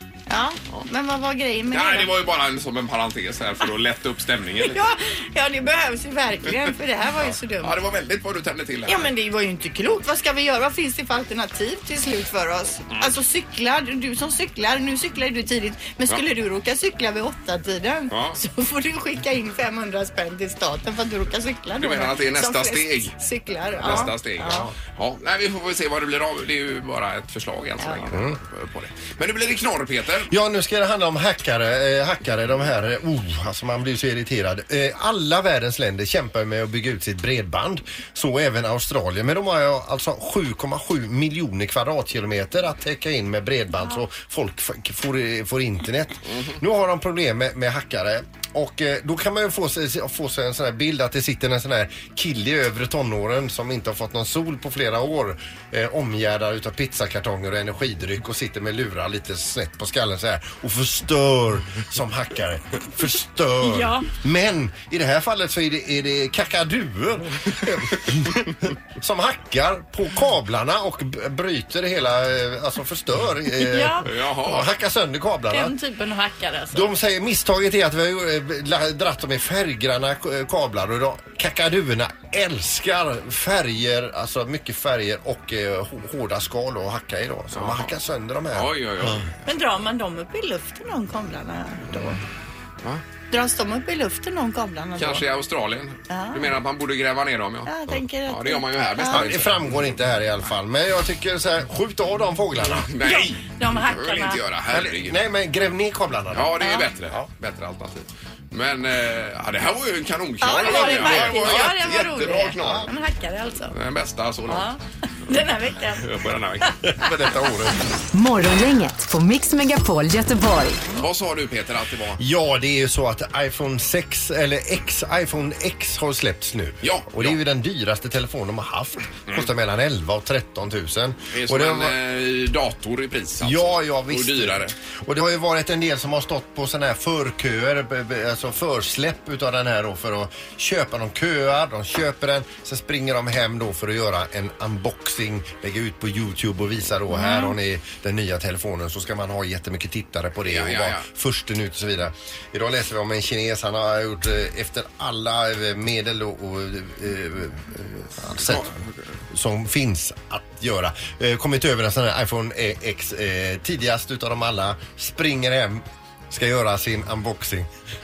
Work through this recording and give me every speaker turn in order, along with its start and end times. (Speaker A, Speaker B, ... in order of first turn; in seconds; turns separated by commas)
Speaker A: 0.3-2.1, Speaker B: 1.7-4.8, Speaker A: 4.6-7.8, Speaker B: 7.2-9.1, Speaker A: 8.9-24.7, Speaker B: 18.1-18.4, Speaker B: 21.8-23.1, Speaker B: 23.8-30.3, Speaker C: 23.9-24.7, Speaker A: 27.8-28.1, Speaker C: 28.1-28.4, Speaker C: 30.3-75.7, Speaker A: 63.6-64.1, Speaker A: 73.6-74.1, Speaker B: 74.0-74.7, Speaker A: 75.5-76.9, Speaker C: 76.7-89.2, Speaker B: 87.5-87.9, Speaker B: 88.5-89.3, Speaker A: 89.5-92.2, Speaker A: 93.3-95.2, Speaker B: 95.0-97.7, Speaker A: 96.1-96.5, Speaker A: 97.7-99.3, Speaker B: 98.3-99.6, Speaker C: 99.1-102.9, Speaker B: 102.8-105.2, Speaker A: 103.0-104.4, Speaker C: 104.7-107.3, Speaker B: 106.3-112.9, Speaker A: 106.6-106.9, Speaker A: 110.4-113.7, Speaker C: 110.9-111.5, Speaker C: 112.6-112.9, Speaker B: 113.7-114.7, Speaker A: 114.5-116.1, Speaker B: 115.3-117.4, Speaker C: 116.8-117.7, Speaker D: 118.1-120.8, Speaker B: 120.9-122.2, Speaker C: 122.2-131.9, Speaker B: 126.8-127.4, Speaker B: 131.3-134.7, Speaker C: 133.4-158.7, Speaker A: 147.1-147.5, Speaker B: 150.4-151.1, Speaker B: 158.3-158.9, Speaker C: 159.3-167.7